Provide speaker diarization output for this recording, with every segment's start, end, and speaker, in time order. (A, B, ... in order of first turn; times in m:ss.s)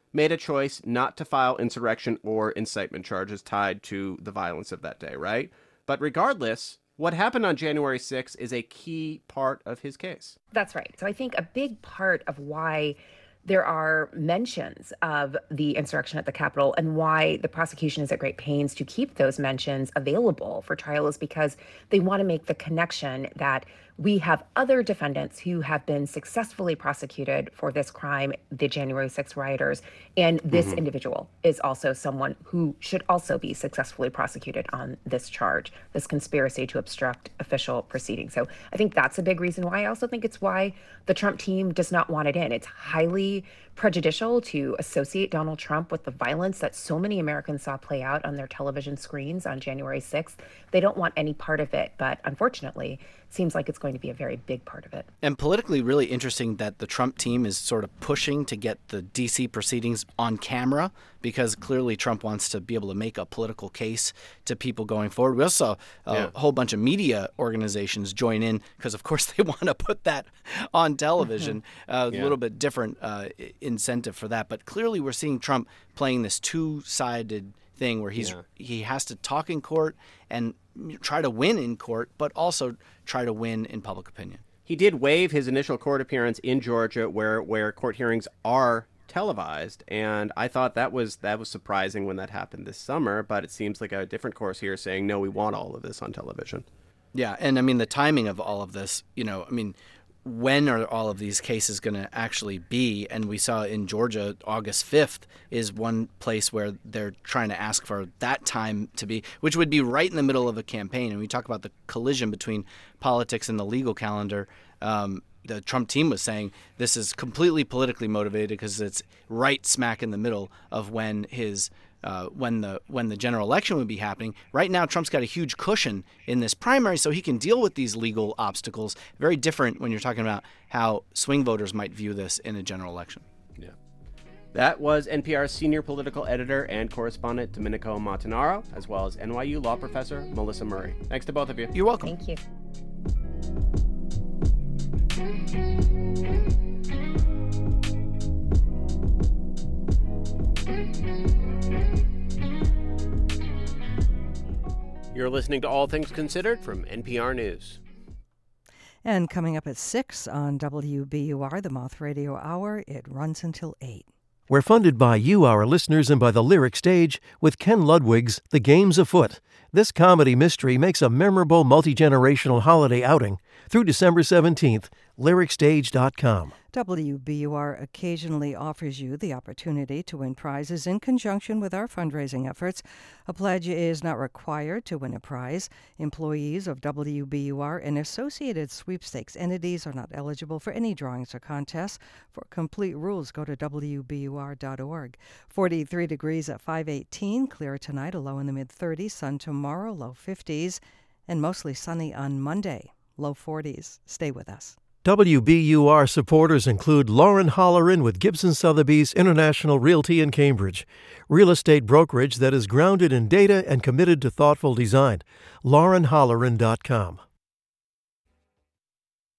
0:00.1-0:10.4 A
0:10.5-0:55.1 B
0:30.5-0:30.8 A
0:55.2-1:24.4 C
1:12.1-1:12.4 A
1:18.2-1:18.4 A
1:24.6-1:36.6 A
1:37.1-2:13.2 C
2:14.5-2:21.7 A
2:21.7-2:22.1 C
2:22.0-2:22.4 B
2:35.1-2:37.8 A
2:39.0-2:44.1 D
2:44.5-2:56.5 E
2:56.7-3:24.8 D
3:25.0-3:37.2 E